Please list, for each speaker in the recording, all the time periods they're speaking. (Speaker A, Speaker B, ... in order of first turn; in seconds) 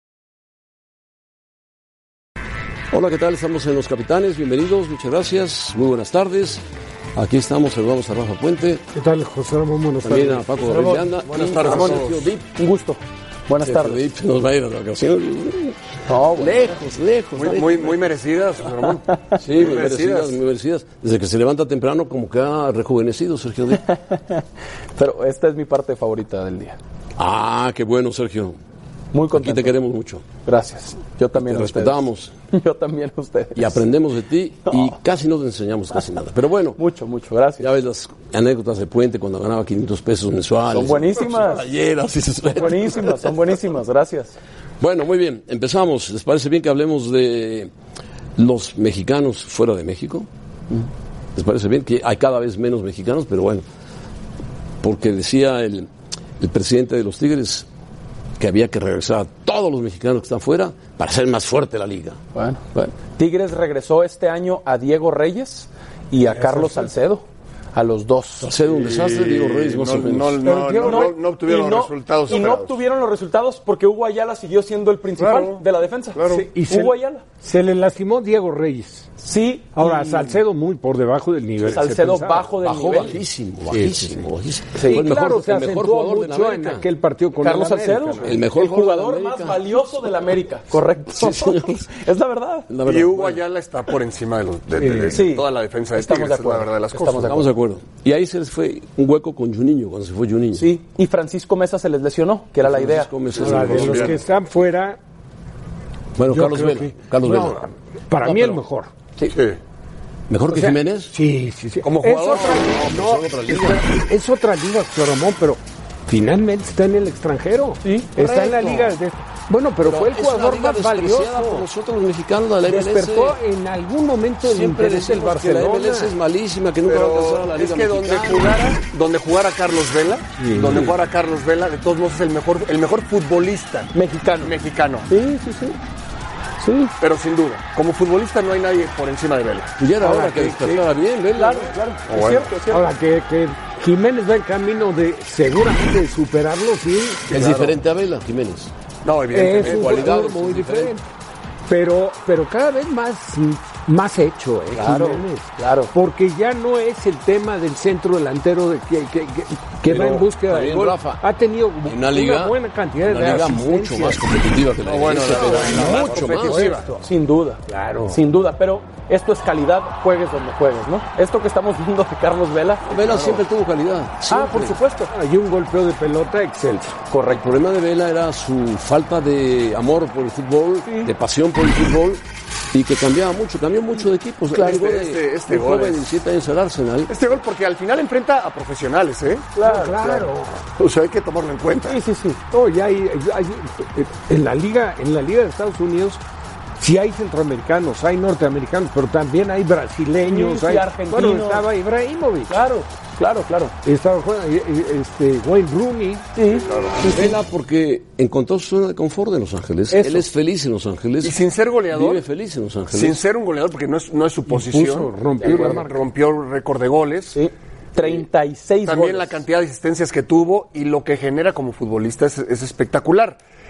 Speaker A: 2.9-6.6, 7.2-8.8, 10.0-12.5, 13.6-15.8, 16.4-18.0, 19.4-23.9, 27.2-28.6, 29.3-30.2, 31.4-32.3, 33.5-36.8, 37.6-43.2, 44.8-47.7, 48.4-50.3, 51.4-53.6, 54.8-55.9, 56.4-57.7, 58.4-62.2, 68.4-70.9, 82.6-86.9, 88.2-89.7, 91.1-91.8, 92.7-93.4, 97.2-100.7, 102.6-104.2, 106.2-107.6, 110.3-111.2, 112.3-113.8, 118.4-118.8, 119.8-123.3, 124.4-128.6, 139.8-141.7, 147.3-148.7, 149.4-150.9, 160.4-161.2, 161.9-166.8, 172.9-174.8, 177.3-182.2, 182.7-187.1, 207.1-211.4, 211.9-213.2
Speaker B: 8.9-10.5, 76.5-79.1, 79.8-82.5, 83.7-84.2, 84.8-88.3, 94.8-95.2, 103.4-105.0, 106.3-108.9, 110.5-121.7, 123.0-126.2, 130.4-130.9, 142.7-147.4, 149.3-151.0, 151.7-164.3, 165.4-167.0, 167.7-168.2, 175.1-177.0, 189.6-190.6, 192.5-196.2, 196.8-202.6, 203.8-206.3, 214.5-216.0
Speaker C: 10.6-11.1, 11.6-12.0, 12.6-14.0, 16.1-16.7, 23.7-24.4, 25.0-26.8, 29.1-29.8, 30.4-33.9, 34.7-35.0, 36.8-37.7, 40.7-41.6, 42.5-44.4, 62.4-68.5, 70.4-77.2, 79.2-80.4, 81.6-83.2, 84.8-85.1, 87.4-92.7, 95.1-97.4, 100.5-103.1, 117.8-118.1, 122.7-123.3, 133.9-134.5, 135.1-135.8, 136.6-136.9, 140.1-140.8, 141.3-142.9, 154.8-155.9, 167.0-172.9, 174.3-175.1, 177.1-177.4, 180.8-181.1, 189.6-190.0, 191.9-192.4, 200.2-201.7, 202.5-203.7, 206.4-207.3, 215.4-215.8, 217.3-219.4
Speaker D: 11.2-12.3, 17.4-19.1, 19.6-20.4, 66.4-66.9, 68.7-72.8, 75.2-75.6, 76.2-76.5, 92.8-97.5, 103.4-104.1, 109.3-109.6, 111.8-113.0, 126.8-135.1, 137.0-139.8, 142.1-142.5, 147.3-147.8, 149.0-150.2, 159.9-160.2, 164.8-166.9, 173.0-173.4, 184.5-186.1, 187.1-190.1, 190.8-192.0, 206.6-207.0, 211.2-212.2, 212.9-217.4, 218.8-223.4